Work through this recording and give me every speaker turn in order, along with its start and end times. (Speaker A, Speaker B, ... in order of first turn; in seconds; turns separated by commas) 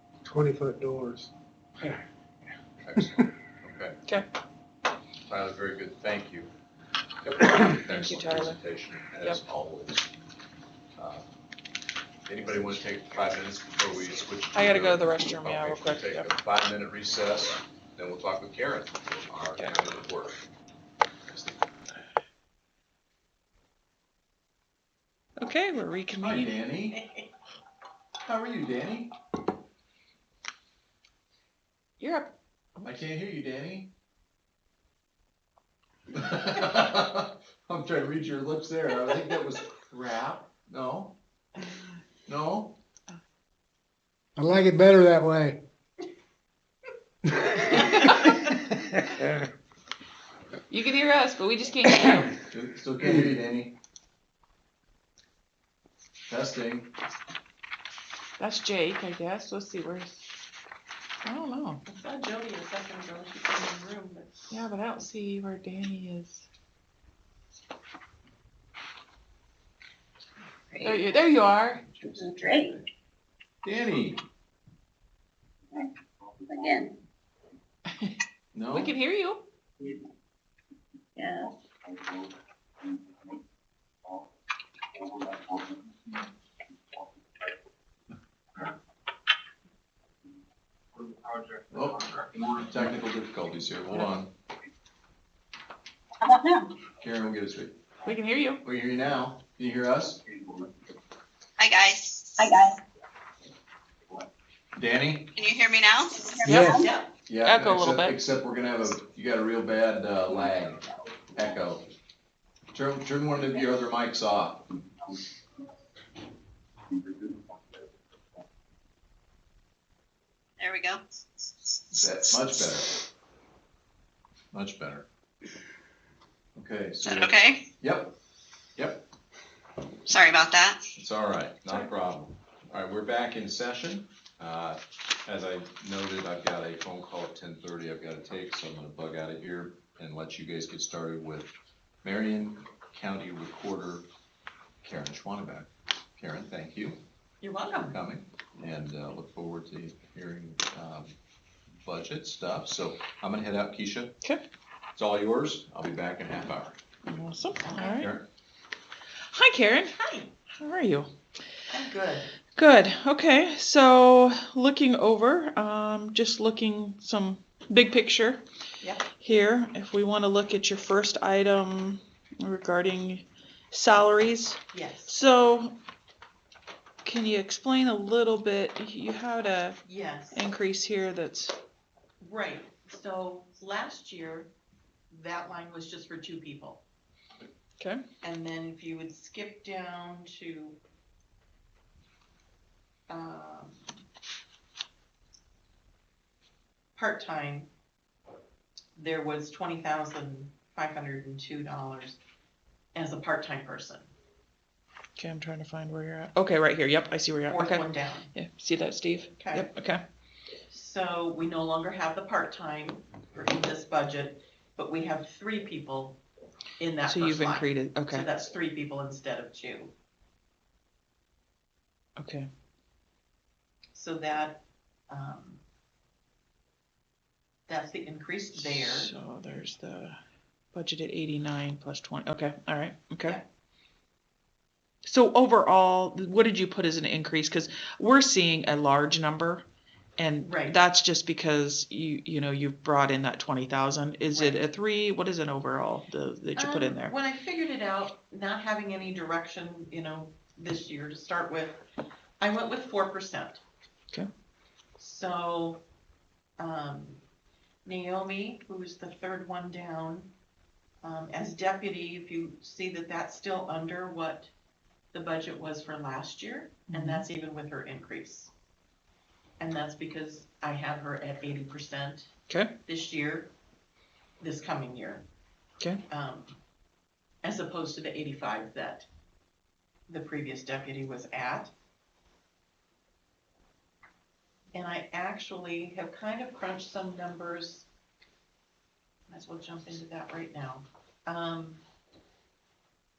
Speaker A: 0.2-2.0, Speaker B: 2.8-4.0, Speaker B: 5.3-6.5, Speaker B: 7.2-10.1, Speaker C: 7.7-8.6, Speaker B: 11.0-11.2, Speaker B: 12.2-20.4, Speaker C: 14.5-16.3, Speaker C: 25.4-26.6, Speaker B: 26.2-27.0, Speaker D: 26.9-27.3, Speaker B: 28.2-29.1, Speaker C: 32.0-33.0, Speaker B: 32.8-33.9, Speaker B: 36.1-41.2, Speaker B: 42.3-42.8, Speaker A: 44.4-45.6, Speaker C: 47.7-48.3, Speaker C: 50.7-52.4, Speaker B: 52.4-53.7, Speaker B: 56.3-56.9, Speaker C: 58.4-60.2, Speaker C: 61.2-61.8, Speaker D: 61.9-64.6, Speaker C: 64.5-66.4, Speaker C: 70.8-71.8, Speaker B: 71.7-72.9, Speaker E: 72.2-72.7, Speaker B: 73.6-74.2, Speaker E: 76.4-76.9, Speaker B: 78.5-78.9, Speaker C: 78.7-79.4, Speaker E: 81.2-81.5, Speaker B: 91.7-94.3, Speaker E: 96.2-96.7, Speaker B: 97.0-97.8, Speaker C: 98.0-98.6, Speaker B: 98.6-100.2, Speaker F: 101.6-102.5, Speaker E: 102.4-102.8, Speaker B: 104.8-105.3, Speaker F: 105.3-106.4, Speaker E: 106.2-106.9, Speaker C: 106.4-106.8, Speaker A: 106.4-106.8, Speaker D: 106.7-107.1, Speaker B: 107.3-111.9, Speaker C: 107.4-108.2, Speaker B: 112.7-114.7, Speaker F: 120.6-121.2, Speaker B: 121.9-123.0, Speaker B: 124.5-125.0, Speaker B: 126.5-128.1, Speaker F: 127.0-127.7, Speaker B: 128.8-129.0, Speaker F: 130.1-130.8, Speaker B: 131.0-144.1, Speaker B: 144.8-147.0, Speaker D: 147.4-148.0, Speaker B: 147.8-151.1, Speaker B: 151.8-154.2, Speaker B: 155.0-156.8, Speaker C: 157.1-158.2, Speaker D: 157.6-158.1, Speaker B: 158.0-158.2, Speaker C: 159.3-159.9, Speaker D: 159.9-160.3, Speaker C: 160.5-161.1, Speaker D: 161.7-162.4, Speaker C: 162.6-168.4, Speaker D: 168.8-169.1, Speaker C: 169.2-175.8, Speaker D: 174.7-175.1, Speaker C: 177.0-179.8, Speaker D: 179.8-180.4, Speaker C: 180.3-181.6, Speaker D: 182.2-184.5, Speaker D: 185.1-186.8, Speaker D: 188.2-190.8, Speaker D: 193.1-194.0, Speaker D: 196.9-197.7, Speaker D: 198.9-202.2, Speaker D: 202.9-204.1, Speaker C: 205.2-210.0, Speaker D: 207.5-208.3, Speaker D: 209.4-209.7, Speaker D: 210.7-216.2, Speaker D: 216.8-219.9, Speaker C: 217.0-218.3, Speaker C: 222.2-222.5, Speaker D: 223.9-225.6, Speaker D: 227.7-229.1, Speaker C: 228.5-230.2, Speaker C: 230.7-233.4, Speaker C: 235.0-239.6, Speaker C: 240.2-247.1, Speaker D: 240.4-240.8, Speaker D: 244.3-244.6, Speaker D: 246.6-251.8, Speaker D: 252.4-253.6, Speaker D: 255.0-255.8, Speaker D: 256.6-257.2, Speaker D: 257.8-260.3, Speaker D: 261.0-264.5, Speaker D: 265.1-268.5, Speaker C: 266.9-267.2, Speaker D: 269.6-272.3, Speaker C: 272.5-272.7, Speaker D: 272.9-273.5, Speaker D: 274.4-275.2, Speaker D: 276.1-276.6, Speaker D: 277.4-279.1, Speaker D: 280.1-281.7, Speaker D: 284.7-287.9, Speaker D: 289.3-291.8